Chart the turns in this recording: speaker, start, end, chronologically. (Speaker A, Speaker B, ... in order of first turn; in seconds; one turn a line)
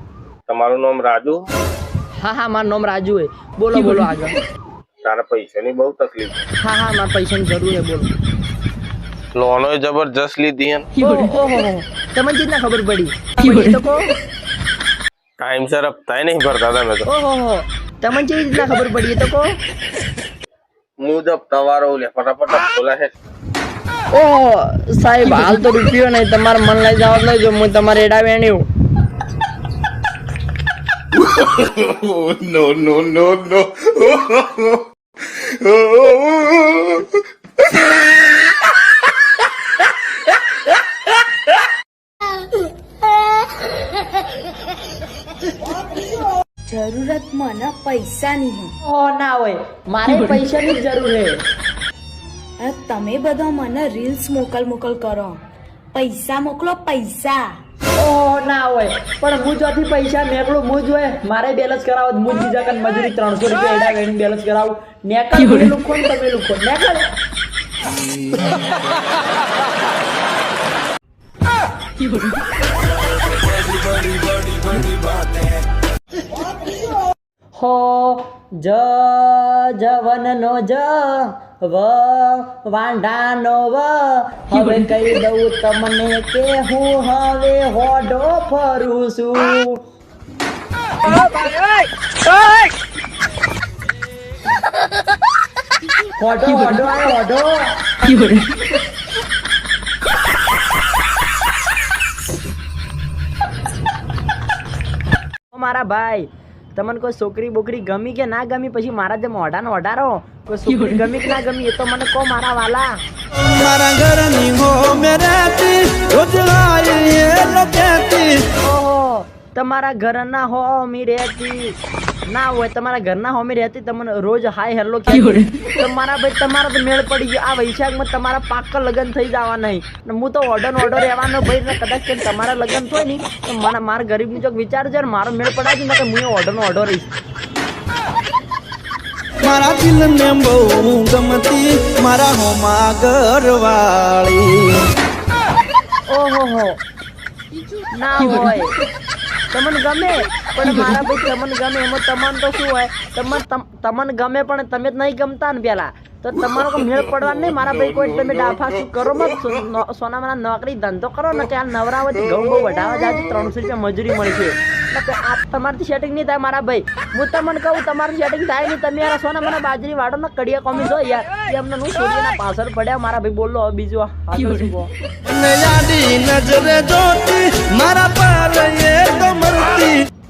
Speaker A: 0.5-1.4
Speaker B: 2.2-4.4
Speaker A: 5.0-6.4
Speaker B: 6.6-8.1
Speaker A: 9.3-10.9
Speaker B: 11.0-14.1
Speaker A: 15.4-17.0
Speaker B: 17.1-19.5
Speaker A: 21.0-23.1
Speaker B: 24.1-28.6
Speaker A: 31.6-33.8
Speaker C: 46.7-48.7
Speaker B: 48.8-51.4
Speaker C: 52.6-55.4
Speaker C: 55.9-57.5
Speaker B: 58.0-67.1
Speaker D: 74.1-75.2
Speaker B: 77.6-89.8
Speaker B: 96.2-97.8
Speaker B: 105.5-112.9
Speaker D: 113.3-118.4
Speaker B: 118.6-121.8
Speaker B: 122.3-137.1
Speaker D: 139.4-144.8
Speaker B: 146.1-146.8
Speaker B: 148.0-148.8
Speaker B: 149.5-174.9
Speaker D: 175.3-180.0